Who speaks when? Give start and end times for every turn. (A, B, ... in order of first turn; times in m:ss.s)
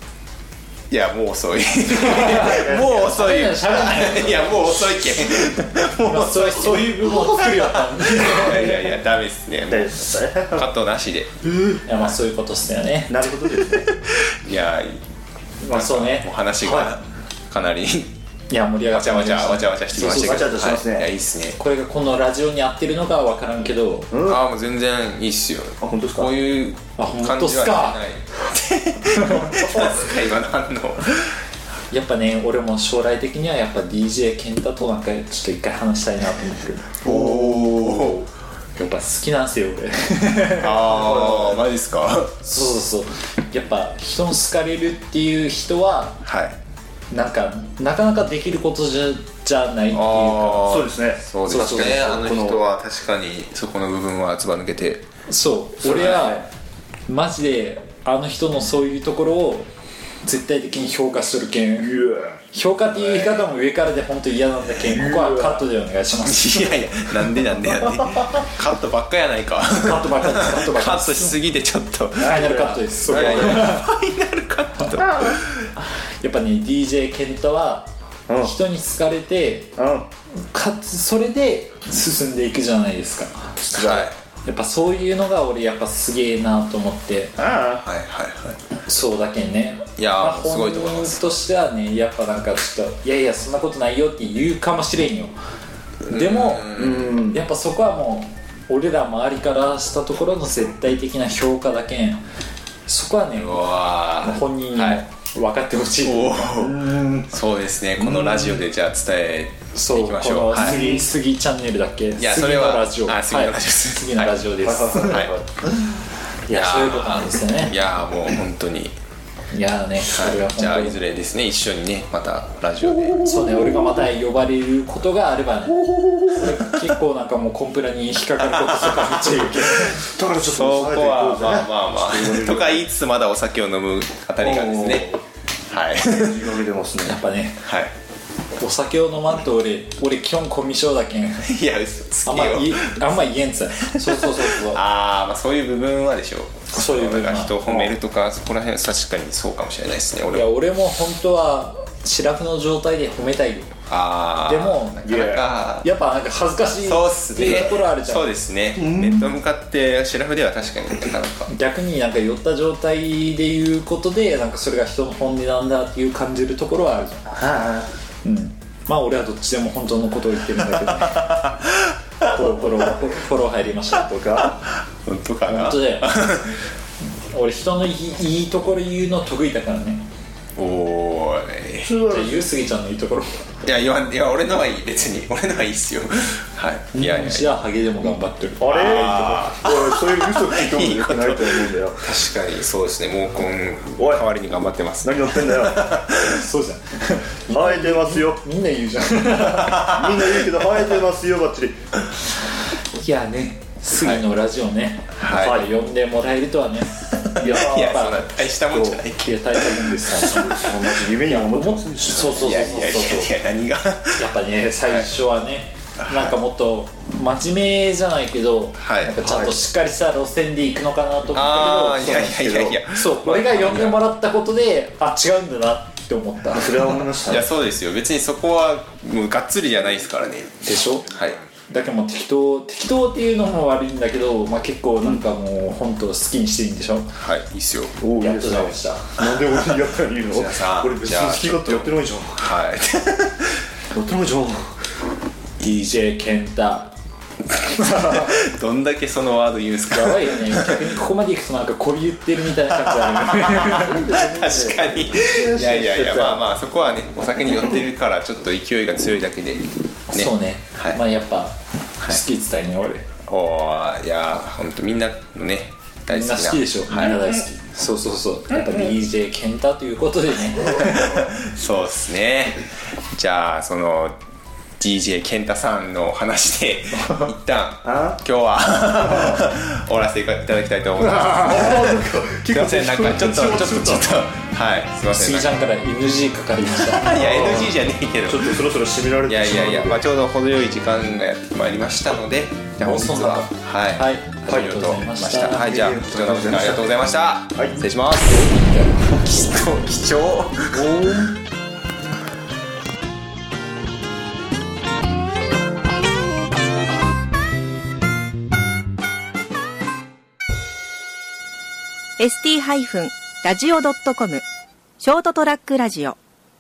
0:00.9-0:11.3 A
0:01.9-0:08.8 B
0:02.2-0:03.1 C
0:07.0-0:07.4 C
0:09.7-0:10.7 C
0:11.5-0:11.8 C
0:11.9-0:13.3 B
0:13.1-0:13.9 C
0:13.6-0:15.0 A
0:15.6-0:16.9 B
0:15.7-0:18.1 A
0:18.5-0:20.8 B
0:18.9-0:21.6 A
0:20.0-0:21.1 C
0:21.6-0:24.1 B
0:24.1-0:24.4 C
0:24.2-0:31.3 A
0:25.8-0:26.3 C
0:27.0-0:28.0 B
0:29.2-0:29.7 B
0:31.9-0:37.0 B
0:37.0-0:38.2 A
0:37.0-0:38.3 C
0:38.8-0:41.0 B
0:40.6-0:42.4 A
0:40.9-0:41.6 C
0:42.4-0:46.2 B
0:46.2-0:46.6 A
0:47.1-0:50.7 B
0:49.9-0:55.0 A
0:50.7-0:52.6 C
0:51.5-0:52.2 B
0:55.3-0:56.5 B
0:55.8-0:56.4 A
0:57.1-0:59.7 B
1:00.2-1:01.9 B
1:01.8-1:02.4 C
1:02.5-1:06.8 B
1:02.9-1:03.5 A
1:04.9-1:05.6 C
1:06.2-1:15.7 A
1:09.7-1:11.4 B
1:12.2-1:13.7 C
1:12.2-1:13.8 B
1:15.0-1:15.3 C
1:16.2-1:17.9 B
1:18.3-1:18.5 C
1:18.4-1:19.8 B
1:19.8-1:20.1 C
1:20.5-1:27.4 B
1:23.7-1:24.1 C
1:23.8-1:24.1 A
1:27.4-1:27.8 C
1:27.8-1:28.6 A
1:28.9-1:35.3 B
1:30.0-1:31.4 A
1:36.1-1:37.2 A
1:36.1-1:42.2 B
1:36.7-1:37.4 C
1:42.9-1:43.6 B
1:43.3-1:45.0 A
1:44.2-1:46.5 B
1:46.0-1:50.8 A
1:46.6-1:47.3 C
1:48.0-1:48.6 B
1:49.7-1:55.2 B
1:50.6-1:51.1 C
1:52.2-1:55.3 A
1:54.6-1:55.6 C
1:56.5-1:57.8 B
1:56.5-1:59.0 A
1:59.5-2:01.0 B
2:00.1-2:03.2 A
2:03.1-2:04.0 C
2:03.2-2:10.0 B
2:05.8-2:06.5 C
2:08.4-2:09.9 A
2:09.8-2:12.8 C
2:10.5-2:15.2 A
2:14.4-2:15.2 C
2:15.7-2:16.6 A
2:16.0-2:17.2 C
2:17.0-2:17.6 B
2:17.6-2:17.9 A
2:18.6-2:21.5 B
2:21.4-2:23.2 A
2:22.3-2:24.8 B
2:23.8-2:30.5 A
2:26.7-2:27.9 B
2:30.3-2:33.7 B
2:33.9-2:35.9 A
2:34.5-2:38.3 B
2:35.0-2:35.4 C
2:36.8-2:41.5 A
2:38.8-2:39.3 C
2:41.5-2:47.3 B
2:47.3-2:47.9 C
2:48.2-2:51.4 B
2:50.7-2:52.3 A
2:52.2-2:54.6 B
2:54.2-2:54.5 C
2:54.6-2:56.6 A
2:55.5-2:56.1 B
2:57.2-3:00.0 B
3:00.6-3:01.9 A
3:01.8-3:02.4 C
3:02.1-3:03.4 B
3:03.6-3:07.5 A
3:07.0-3:09.0 B
3:08.6-3:12.1 C
3:08.7-3:16.4 A
3:14.0-3:14.3 C
3:15.0-3:15.9 C
3:16.1-3:20.0 B
3:17.5-3:18.4 C
3:19.5-3:20.5 A
3:19.9-3:21.8 C
3:22.9-3:28.2 B
3:23.9-3:24.2 A
3:25.2-3:25.7 A
3:25.4-3:25.7 C
3:27.3-3:31.1 A
3:27.4-3:27.9 C
3:28.7-3:29.0 C
3:29.2-3:33.3 B
3:30.2-3:32.6 C
3:32.3-3:34.3 A
3:34.2-3:42.0 B
3:36.0-3:36.4 A
3:38.8-3:39.2 A
3:39.2-3:39.6 C
3:41.3-3:44.0 A
3:41.6-3:42.8 C
3:42.9-3:46.8 B
3:46.5-3:47.5 C
3:47.3-3:51.4 A
3:50.6-3:51.1 B
3:51.7-3:57.1 B
3:57.2-3:58.0 A
3:58.0-4:02.4 C
3:58.2-3:59.2 B
4:00.3-4:03.6 A
4:03.9-4:04.7 C
4:05.6-4:06.9 B
4:07.6-4:08.3 B
4:07.7-4:10.9 A
4:09.9-4:14.1 B
4:13.0-4:21.0 A
4:13.7-4:16.5 C
4:20.1-4:23.1 B
4:23.3-4:27.3 A
4:26.1-4:31.2 B
4:30.7-4:34.2 A
4:34.8-4:45.6 A
4:37.8-4:38.2 C
4:39.0-4:39.4 C
4:41.1-4:44.2 C
4:45.1-4:47.1 B
4:46.7-4:48.6 A
4:47.0-4:50.0 C
4:49.2-4:58.6 A
4:52.8-4:55.6 B
4:55.4-4:56.9 C
4:57.6-4:57.8 C
4:58.3-4:59.2 B
4:59.1-5:01.1 A
5:00.7-5:01.4 B
5:12.2-5:14.4 D
5:15.0-5:16.2 D